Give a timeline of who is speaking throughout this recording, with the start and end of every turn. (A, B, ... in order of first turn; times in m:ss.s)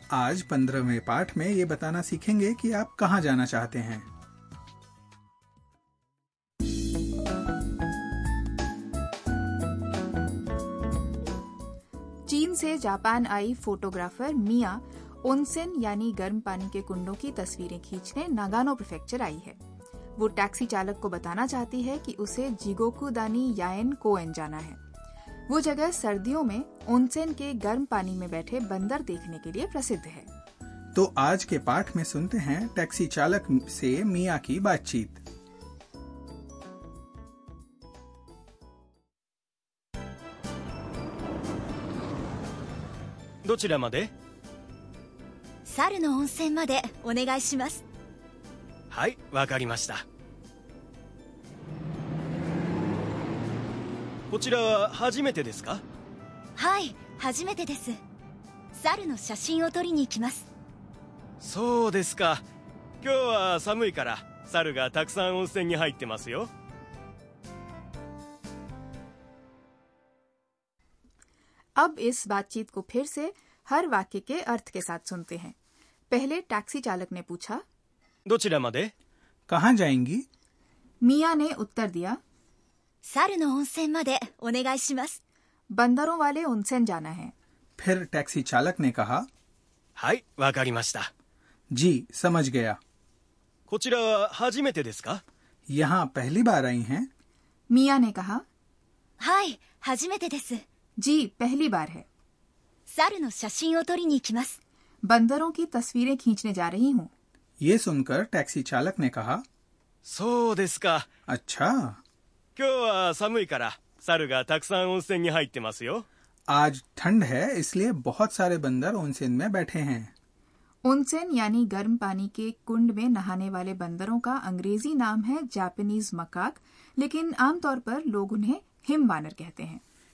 0:00.1-0:04.1 A
0:12.3-0:19.6 B
0:20.2-0:24.8 B
0:25.5-0:30.3 B
0:30.9-0:35.2 A
0:43.4-0:44.1 C
0:45.6-0:47.8 D
0:48.9-0:50.0 C
0:54.3-0:55.8 C
0:56.6-0:58.0 D
0:58.7-1:00.5 D
1:01.4-1:02.4 C
1:03.0-1:06.5 C
1:11.8-1:15.5 B
1:16.1-1:17.6 B
1:18.3-1:18.9 C
1:19.5-1:20.2 A
1:21.0-1:22.2 B
1:23.0-1:25.2 D
1:25.7-1:27.3 B
1:27.8-1:29.3 A
1:30.0-1:31.1 C
1:31.7-1:32.8 A
1:33.7-1:35.2 C
1:35.7-1:37.1 A
1:37.7-1:38.4 B
1:39.2-1:40.6 D
1:41.0-1:42.0 B
1:42.9-1:44.6 D
1:45.0-1:47.1 B
1:47.6-1:49.4 A
1:50.1-1:51.0 C
1:51.3-1:52.0 A
1:52.6-1:56.0 C
1:56.5-2:00.1 A
2:00.8-2:09.8 B